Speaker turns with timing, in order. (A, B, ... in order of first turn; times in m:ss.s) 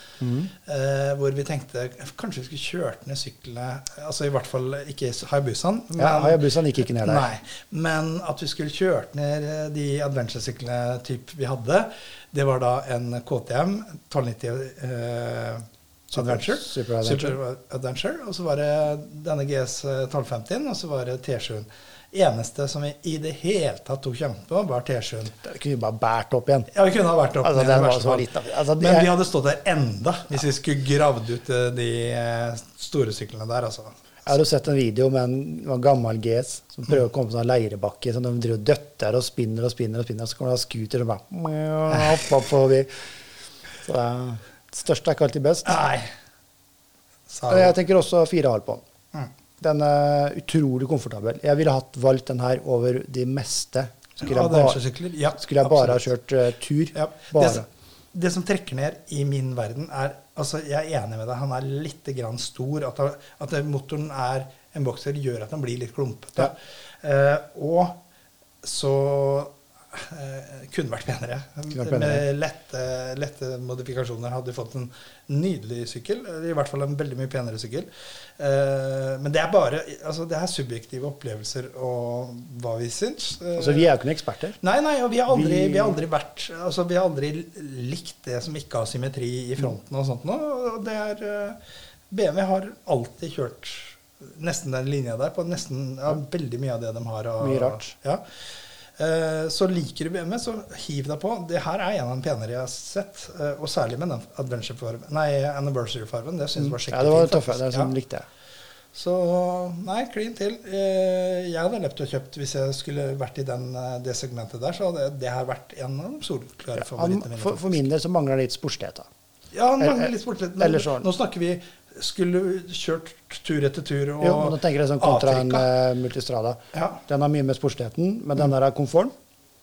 0:00.2-0:00.5 A
0:00.6-0:25.3 B
0:05.9-0:07.3 A
0:16.1-0:17.4 A
0:25.4-0:26.7 A
0:26.7-0:34.2 B
0:27.4-0:29.1 A
0:34.2-0:42.9 A
0:43.8-0:45.8 A
0:45.6-0:46.1 B
0:47.3-0:47.8 B
0:47.5-0:48.8 A
0:49.6-0:54.8 A
0:54.2-0:56.0 B
0:55.3-0:57.7 A
0:56.9-1:08.0 B
1:08.6-1:23.9 B
1:11.7-1:12.2 A
1:23.5-1:24.6 A
1:24.6-1:31.6 B
1:25.3-1:26.0 A
1:32.1-1:38.2 B
1:37.4-1:37.9 A
1:39.0-1:47.9 B
1:46.5-1:48.3 A
1:48.9-1:57.8 B
1:56.7-1:59.1 A
1:59.5-2:05.7 B
1:59.8-2:01.1 A
2:04.2-2:09.1 A
2:06.7-2:07.0 B